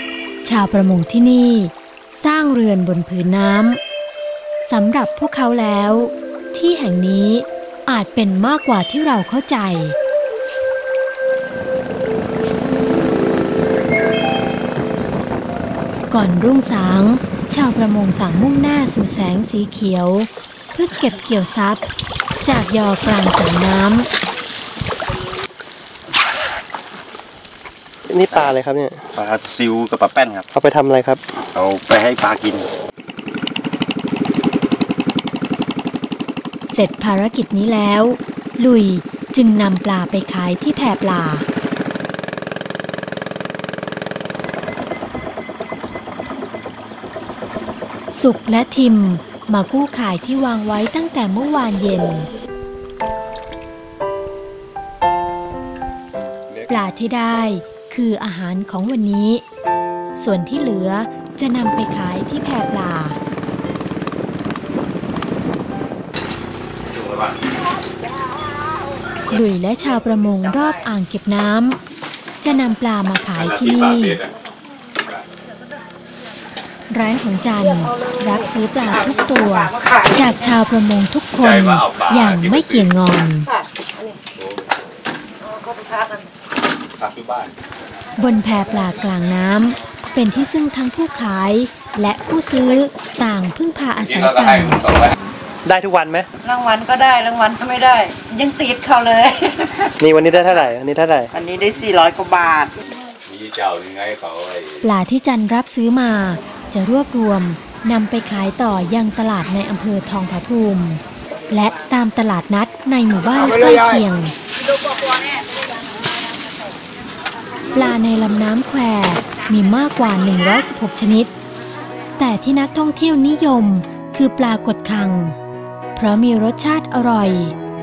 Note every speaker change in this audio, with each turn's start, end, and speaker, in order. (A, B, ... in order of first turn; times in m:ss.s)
0:00.4-0:03.8 A
0:04.6-0:10.0 A
0:16.1-0:21.8 A
0:22.4-0:24.1 A
0:28.1-0:29.1 B
0:28.3-0:28.6 C
0:29.1-0:30.5 C
0:30.5-0:31.2 B
0:31.5-0:32.7 C
0:36.7-0:41.5 A
0:48.1-0:52.3 A
0:56.7-0:59.4 A
1:00.2-1:03.2 A
1:06.9-1:07.4 D
1:09.3-1:11.8 A
1:12.4-1:14.2 A
1:13.4-1:14.3 D
1:16.9-1:23.5 A
1:19.8-1:20.1 E
1:21.4-1:22.9 D
1:25.5-1:26.3 E
1:27.0-1:27.5 D
1:28.2-1:34.8 A
1:34.0-1:35.2 D
1:35.6-1:36.3 B
1:36.4-1:39.9 E
1:40.0-1:41.3 B
1:41.3-1:42.7 E
1:43.3-1:44.8 D
1:44.8-1:54.3 A
1:57.7-2:01.3 A
2:02.2-2:05.4 A
2:06.0-2:07.6 A